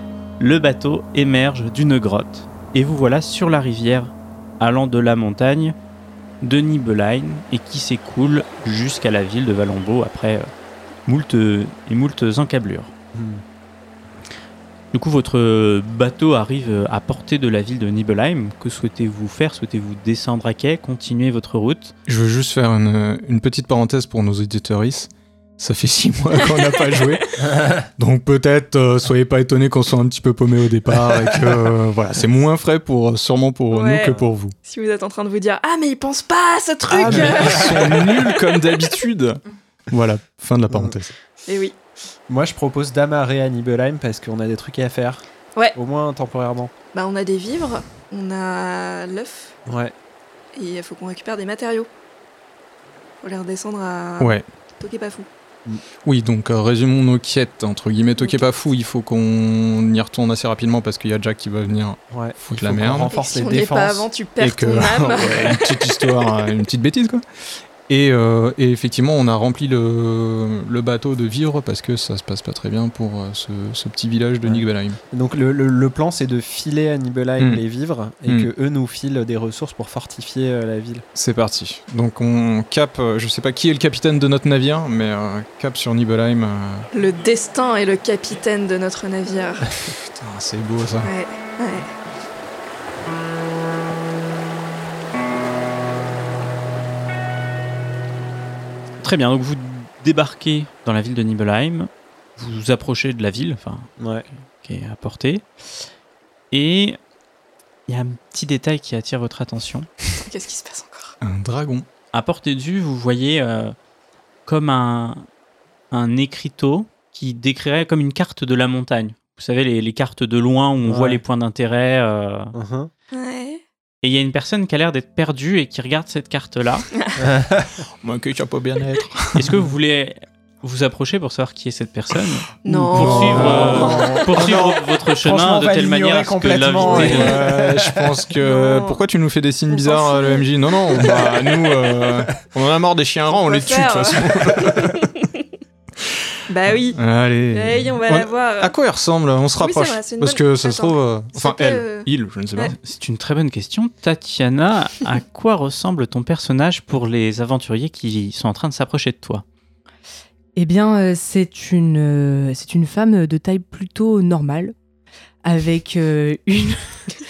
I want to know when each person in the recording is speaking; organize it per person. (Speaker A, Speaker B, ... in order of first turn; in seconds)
Speaker A: 0.4-5.7, 6.4-10.5, 11.1-12.9, 14.9-21.9, 99.0-103.9, 104.6-105.5, 106.5-107.0, 107.9-109.9, 112.1-113.7, 114.5-115.3, 115.9-122.5, 124.0-126.9, 129.3-137.4, 152.8-159.4
Speaker B: 13.1-13.4, 27.5-27.8, 37.0-37.5, 42.3-45.2, 45.7-46.7, 49.6-49.9, 62.1-64.1, 74.4-81.0, 104.0-104.3, 120.8-121.2, 122.5-122.9, 127.2-127.8, 133.3-134.3, 135.2-138.1
Speaker C: 22.1-34.5, 36.9-41.1, 56.0-63.1, 64.4-67.2, 67.9-75.0, 81.1-86.9, 90.2-91.1, 111.2-111.8, 128.0-129.5, 132.7-134.8, 136.8-145.0, 146.9-152.8
Speaker D: 26.6-26.8, 33.7-38.7, 41.4-41.8, 46.9-49.5, 50.5-51.9, 53.2-55.3, 63.0-66.2, 86.9-89.7, 91.0-91.9, 110.1-111.2, 123.1-123.6, 132.6-134.2, 138.3-139.0, 139.7-141.4, 143.3-145.4, 146.5-147.0, 147.5-148.7, 149.6-152.7
Speaker E: 160.5-164.7, 165.4-167.0